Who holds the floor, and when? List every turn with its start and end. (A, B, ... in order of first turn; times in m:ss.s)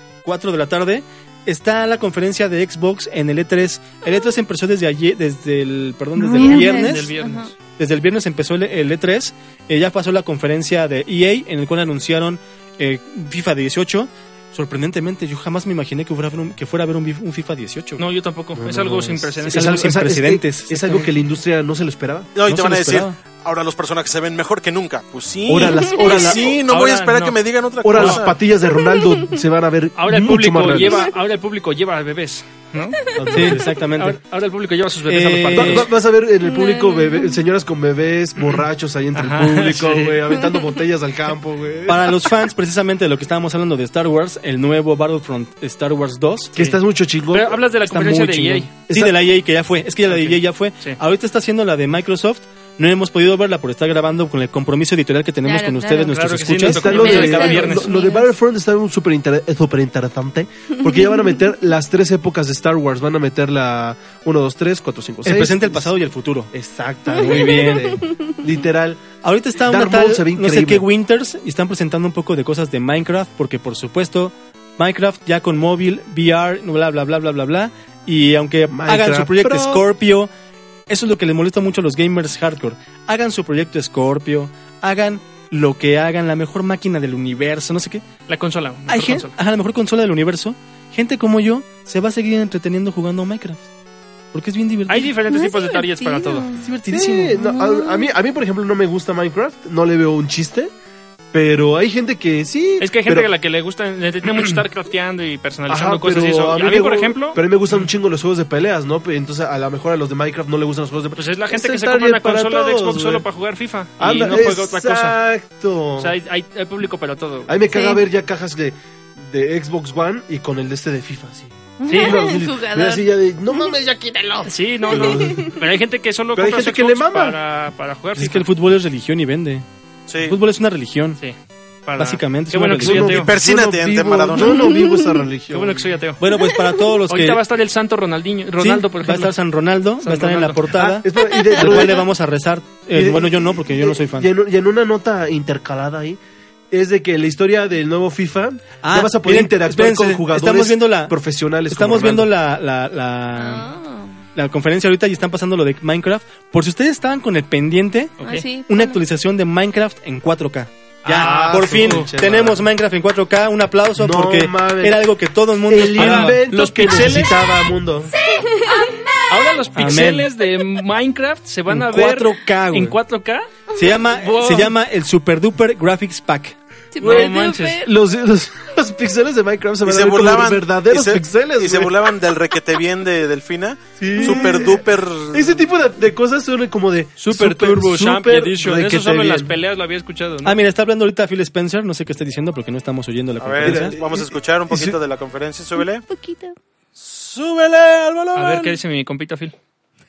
0:00.2-0:07.1 A
0:06.2-0:07.5 B
0:06.3-0:07.5 C
0:07.8-0:18.0 A
0:18.0-0:19.9 C
0:18.6-0:22.3 D
0:19.4-0:21.1 A
0:22.3-0:28.4 E
0:22.4-0:23.2 A
0:25.5-0:26.6 D
0:25.8-0:26.1 B
0:26.7-0:27.4 C
0:27.8-0:31.0 D
0:27.9-0:28.2 C
0:30.0-0:35.9 C
0:33.2-0:33.6 D
0:33.3-0:34.2 A
0:35.1-0:35.9 A
0:35.5-0:42.2 D
0:36.4-0:37.4 B
0:38.4-0:40.2 C
0:41.9-0:46.5 A
0:46.5-0:47.6 D
0:47.3-0:48.7 C
0:47.8-0:57.0 A
0:50.1-0:51.0 C
0:55.4-0:56.2 B
0:56.1-0:58.0 C
0:56.7-1:05.9 D
0:56.8-0:58.3 B
1:00.8-1:01.4 B
1:05.2-1:06.5 A
1:06.5-1:09.0 D
1:07.1-1:07.8 B
1:07.1-1:07.9 A
1:09.2-1:20.3 A
1:09.6-1:10.8 D
1:18.7-1:19.8 D
1:20.9-1:28.0 A
1:28.3-1:29.3 C
1:28.9-1:33.7 A
1:34.3-1:35.1 A
1:34.9-1:36.5 C
1:35.3-1:36.6 B
1:36.6-1:37.4 A
1:36.9-1:40.7 D
1:37.3-1:38.1 B
1:41.3-1:43.3 D
1:42.8-1:47.9 C
1:45.7-1:53.2 D
1:51.1-1:55.2 C
1:54.0-1:56.1 D
1:56.0-1:57.5 C
1:57.5-2:05.6 D
1:57.7-1:58.0 B
2:01.8-2:03.7 B
2:01.9-2:02.3 C
2:04.4-2:08.5 C
2:04.9-2:05.5 B
2:06.3-2:07.4 D
2:08.2-2:09.6 A
2:10.1-2:10.4 E
2:10.2-2:11.2 A
2:11.2-2:13.3 C
2:12.0-2:13.2 A
2:12.8-2:16.0 D
2:13.0-2:14.6 E
2:14.4-2:15.2 B
2:15.5-2:16.2 C
2:16.2-2:17.4 A
2:16.5-2:17.0 B
2:17.1-2:19.4 C
2:18.6-2:24.3 A
2:20.0-2:20.7 C
2:20.7-2:22.0 D
2:21.2-2:21.6 B
2:22.9-2:26.2 D
2:26.7-2:32.3 D
2:28.8-2:31.2 A
2:31.7-2:33.7 A
2:33.4-2:34.2 B
2:34.3-2:46.4 A
2:38.2-2:38.4 C
2:38.2-2:39.0 B
2:41.0-2:42.1 C
2:41.1-2:42.6 D
2:44.0-2:45.0 D
2:45.7-2:48.1 D
2:45.9-2:47.7 C
2:48.1-2:49.5 B
2:49.3-2:54.7 C
2:49.7-2:50.3 A
2:51.7-2:53.0 A
2:53.7-2:56.6 A
2:56.9-2:57.9 B
2:57.0-3:02.1 D
2:57.0-2:57.8 C
2:59.8-3:05.6 E
3:04.0-3:09.5 D
3:07.2-3:10.6 C
3:10.4-3:13.9 A
3:13.4-3:16.0 E
3:13.6-3:15.0 D
3:15.8-3:16.5 B
3:17.0-3:18.8 E
3:18.3-3:19.5 C